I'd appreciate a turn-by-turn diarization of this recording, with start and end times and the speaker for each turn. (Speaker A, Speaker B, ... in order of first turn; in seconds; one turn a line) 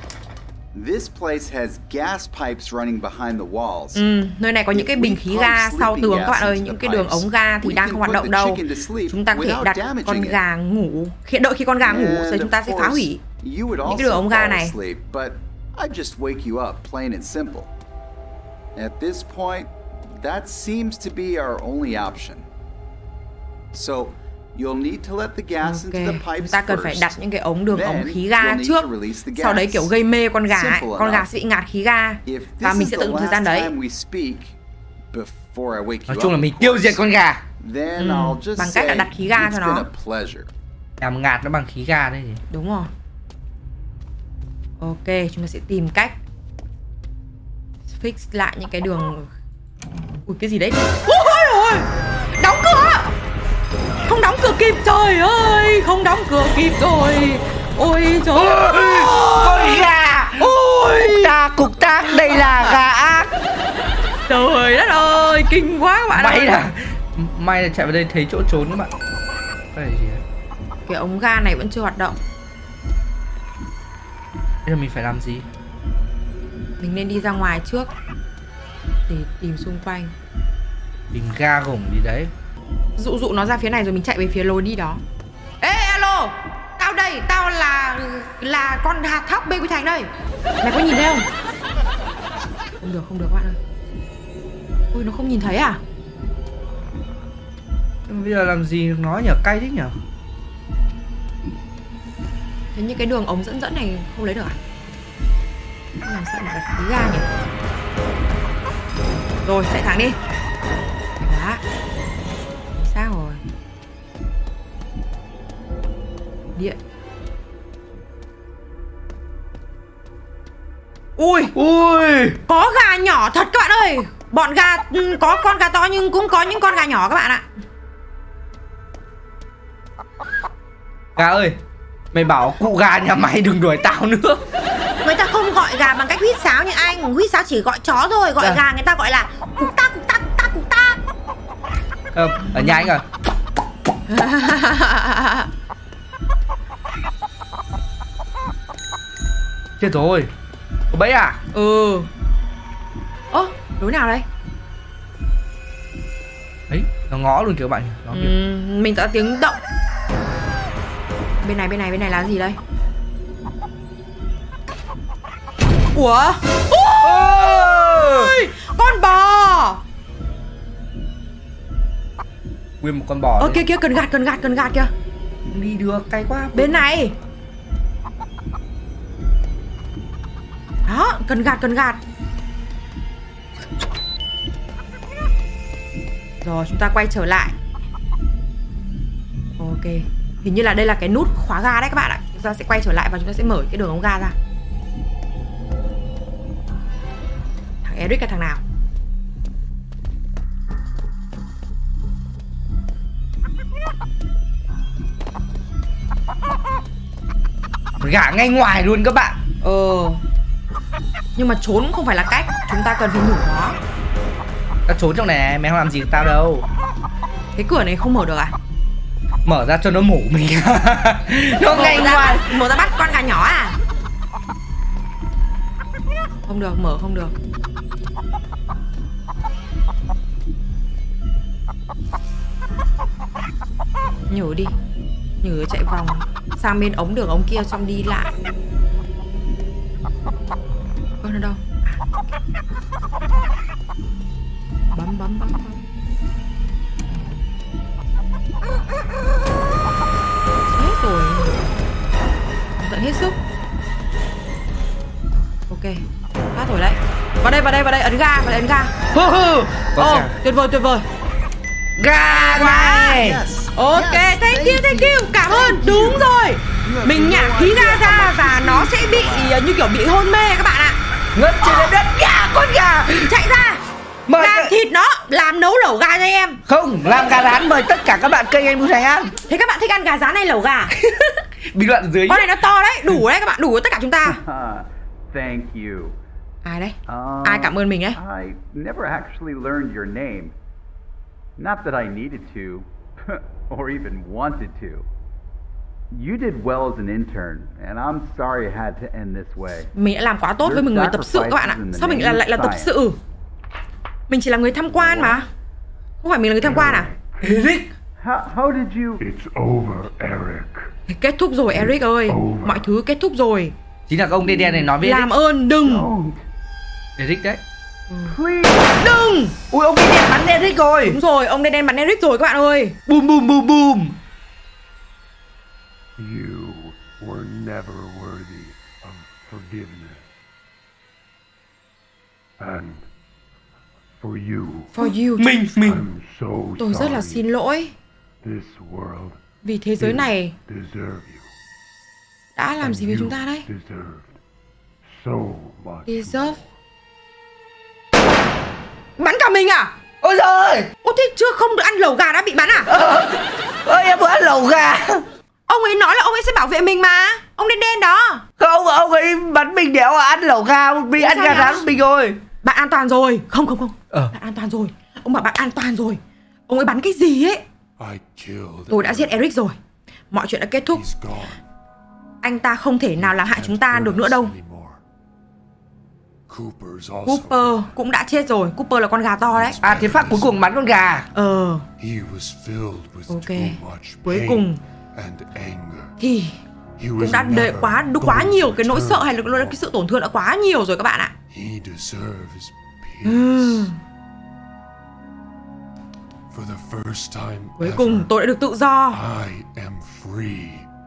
Speaker A: 0.7-4.0
Speaker B: 4.0-13.2
Speaker A: 4.7-10.4
Speaker A: 11.8-17.7
Speaker B: 13.8-14.7
Speaker A: 18.8-22.5
Speaker A: 23.7-29.9
Speaker B: 25.6-33.7
Speaker A: 30.5-31.3
Speaker A: 32.3-34.6
Speaker A: 35.1-37.0
Speaker C: 36.1-37.4
Speaker A: 37.6-40.5
Speaker B: 38.0-39.9
Speaker C: 41.0-42.4
Speaker B: 42.5-42.9
Speaker B: 44.8-46.2
Speaker B: 48.0-49.3
Speaker B: 50.3-51.9
Speaker B: 52.4-53.1
Speaker B: 54.0-59.8
Speaker C: 58.4-63.3
Speaker B: 60.4-61.3
Speaker B: 62.2-62.8
Speaker B: 64.3-66.6
Speaker C: 66.1-68.9
Speaker C: 69.7-70.2
Speaker B: 70.9-72.2
Speaker C: 74.7-75.5
Speaker B: 76.8-77.9
Speaker B: 79.1-80.1
Speaker C: 81.1-82.3
Speaker B: 83.0-85.0
Speaker B: 85.6-90.1
Speaker B: 90.6-91.3
Speaker B: 92.8-93.6
Speaker B: 94.9-95.8
Speaker C: 98.1-100.0
Speaker B: 102.8-104.6
Speaker B: 106.0-107.3
Speaker B: 109.5-110.2
Speaker B: 111.2-111.6
Speaker B: 112.8-113.4
Speaker B: 121.2-121.5
Speaker C: 121.5-122.4
Speaker B: 122.5-127.5
Speaker C: 131.2-131.6
Speaker C: 132.1-134.4
Speaker B: 135.0-141.0
Speaker C: 142.1-143.1
Speaker B: 142.4-142.9
Speaker B: 144.1-145.5
Speaker C: 149.8-150.3
Speaker C: 150.9-151.4
Speaker B: 151.5-152.1
Speaker B: 153.3-154.3
Speaker C: 156.7-158.3
Speaker B: 158.1-159.6
Speaker B: 161.4-162.6
Speaker B: 165.9-169.8
Speaker C: 167.0-168.3
Speaker C: 172.8-173.6
Speaker B: 173.4-174.9
Speaker C: 175.5-176.8
Speaker B: 176.6-177.1
Speaker B: 180.9-182.0
Speaker B: 186.4-187.6
Speaker B: 189.6-194.4
Speaker B: 197.8-198.6
Speaker C: 208.0-209.4
Speaker B: 209.6-210.2
Speaker B: 211.4-213.8
Speaker C: 214.9-216.7
Speaker B: 217.6-218.5
Speaker C: 219.4-222.4
Speaker B: 221.7-223.8
Speaker B: 226.5-227.3
Speaker B: 234.3-234.7
Speaker B: 235.4-238.3
Speaker B: 241.2-242.1
Speaker B: 244.9-245.8
Speaker B: 250.7-251.7
Speaker B: 252.8-253.4
Speaker B: 255.7-258.9
Speaker C: 259.1-260.4
Speaker B: 260.0-261.1
Speaker C: 262.0-263.4
Speaker B: 262.6-263.2
Speaker A: 262.8-269.6
Speaker B: 263.7-271.0
Speaker C: 271.4-273.4
Speaker B: 273.3-273.8
Speaker C: 274.3-274.7
Speaker B: 274.4-276.6
Speaker C: 276.7-279.3
Speaker B: 279.5-281.0
Speaker C: 281.7-282.5
Speaker B: 282.3-284.4
Speaker A: 284.2-286.2
Speaker B: 286.6-288.2
Speaker A: 287.1-290.6
Speaker A: 291.6-295.1
Speaker A: 296.1-299.9
Speaker B: 299.9-303.2
Speaker A: 300.6-303.0
Speaker B: 304.3-305.5
Speaker D: 304.9-305.4
Speaker B: 306.2-307.1
Speaker D: 306.6-307.4
Speaker C: 307.4-307.9
Speaker A: 308.2-309.2
Speaker D: 309.2-310.9
Speaker B: 311.1-313.7
Speaker D: 311.7-312.9
Speaker C: 314.1-315.3
Speaker B: 314.5-316.1
Speaker A: 315.8-316.4
Speaker C: 317.2-317.6
Speaker B: 318.1-318.4
Speaker A: 318.2-319.2
Speaker B: 319.0-319.6
Speaker C: 319.7-321.2
Speaker B: 321.1-323.0
Speaker C: 323.1-324.2
Speaker D: 326.2-330.3
Speaker D: 332.6-333.1
Speaker D: 334.2-335.1
Speaker B: 334.9-335.7
Speaker C: 335.4-336.1
Speaker D: 335.8-337.5
Speaker B: 336.8-337.9
Speaker D: 338.4-339.4
Speaker B: 339.6-340.6
Speaker D: 340.0-341.5
Speaker B: 342.6-343.7
Speaker D: 342.8-344.4
Speaker D: 345.0-346.7
Speaker B: 346.1-346.6
Speaker B: 349.2-349.9
Speaker C: 350.2-350.9
Speaker B: 351.0-352.9
Speaker C: 352.9-355.2
Speaker B: 355.7-358.4
Speaker C: 358.6-362.4
Speaker B: 361.2-361.9
Speaker B: 362.6-367.6
Speaker D: 368.0-369.5
Speaker B: 368.9-369.8
Speaker B: 370.3-371.0
Speaker D: 370.9-371.6
Speaker B: 372.4-374.5
Speaker D: 373.2-375.0
Speaker D: 376.5-377.9
Speaker B: 377.3-379.9
Speaker D: 379.5-380.7
Speaker C: 379.8-381.3
Speaker B: 381.3-381.9
Speaker D: 382.0-386.2
Speaker B: 383.3-384.8
Speaker B: 386.2-386.6
Speaker D: 387.0-389.8
Speaker B: 387.2-391.3
Speaker D: 391.5-393.9
Speaker B: 393.2-394.0
Speaker D: 396.5-398.3
Speaker B: 397.8-399.2
Speaker D: 399.1-400.9